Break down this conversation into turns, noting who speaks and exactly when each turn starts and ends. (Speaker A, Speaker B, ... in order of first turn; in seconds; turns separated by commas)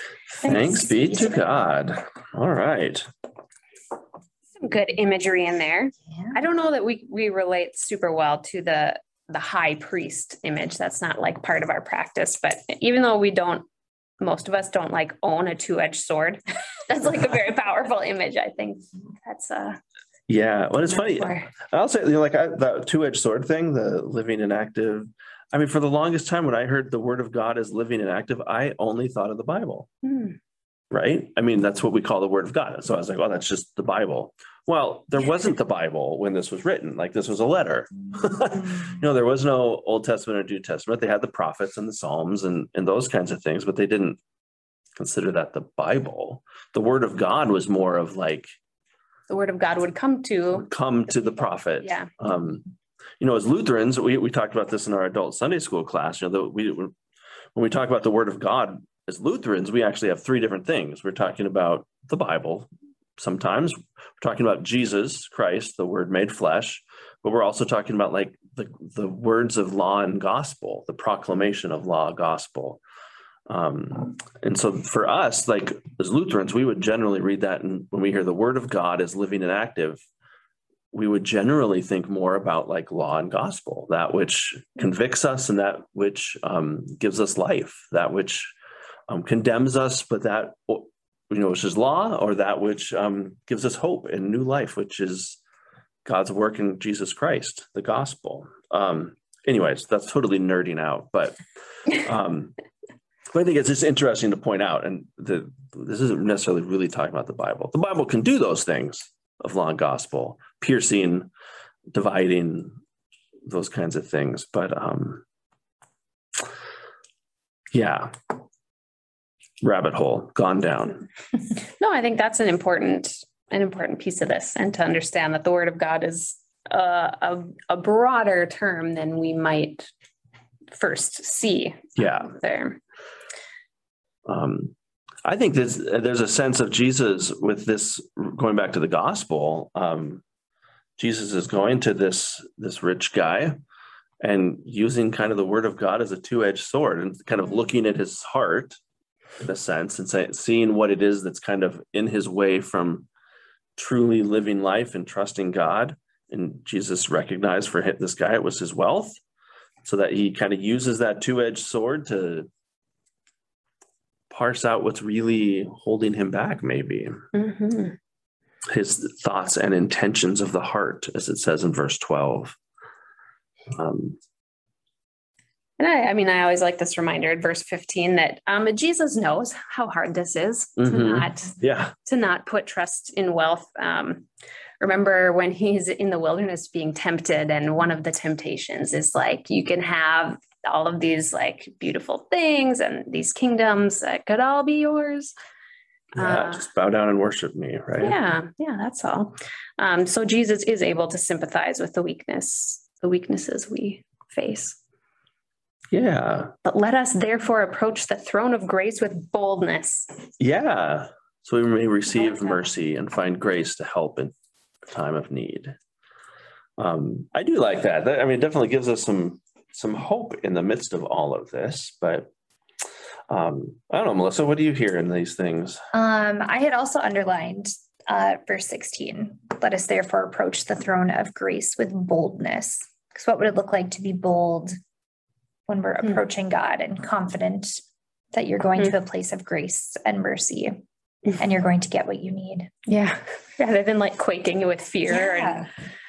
Speaker A: 0.4-3.1, Speaker B: 0.4-1.6, Speaker C: 4.6-13.7, Speaker B: 6.1-6.4, Speaker C: 14.2-19.8, Speaker A: 20.3-29.9, Speaker C: 20.9-21.5, Speaker C: 30.0-30.4, Speaker A: 30.9-44.2, Speaker A: 45.0-48.5, Speaker C: 49.3-50.7, Speaker A: 50.6-52.7, Speaker C: 51.8-52.1, Speaker A: 53.2-56.9, Speaker A: 57.5-72.8, Speaker A: 73.5-80.0, Speaker A: 80.9-88.5, Speaker A: 89.1-95.4, Speaker A: 96.0-102.6, Speaker A: 103.3-111.3, Speaker A: 111.9-112.8, Speaker A: 113.5-115.2, Speaker A: 117.7-118.1, Speaker A: 119.6-121.1, Speaker C: 121.8-129.9, Speaker C: 130.7-132.8, Speaker A: 132.0-132.3, Speaker A: 134.3-134.7, Speaker A: 135.2-140.2, Speaker A: 141.0-143.6, Speaker A: 144.2-148.8, Speaker A: 149.4-153.1, Speaker A: 153.8-159.2, Speaker A: 159.8-162.5, Speaker A: 164.3-167.2, Speaker C: 167.3-168.0, Speaker A: 168.7-172.6, Speaker A: 173.7-174.2, Speaker C: 175.8-184.2, Speaker A: 180.8-181.9, Speaker C: 184.8-195.3, Speaker C: 196.2-196.7, Speaker A: 196.2-198.2, Speaker C: 198.0-204.8, Speaker A: 205.9-206.5, Speaker C: 206.7-210.1, Speaker A: 210.4-214.3, Speaker A: 214.9-215.8, Speaker A: 216.8-222.3, Speaker A: 223.3-225.8, Speaker B: 225.9-234.8, Speaker B: 235.7-237.8, Speaker B: 238.3-240.8, Speaker B: 241.4-242.7, Speaker C: 242.9-245.7, Speaker B: 245.1-245.7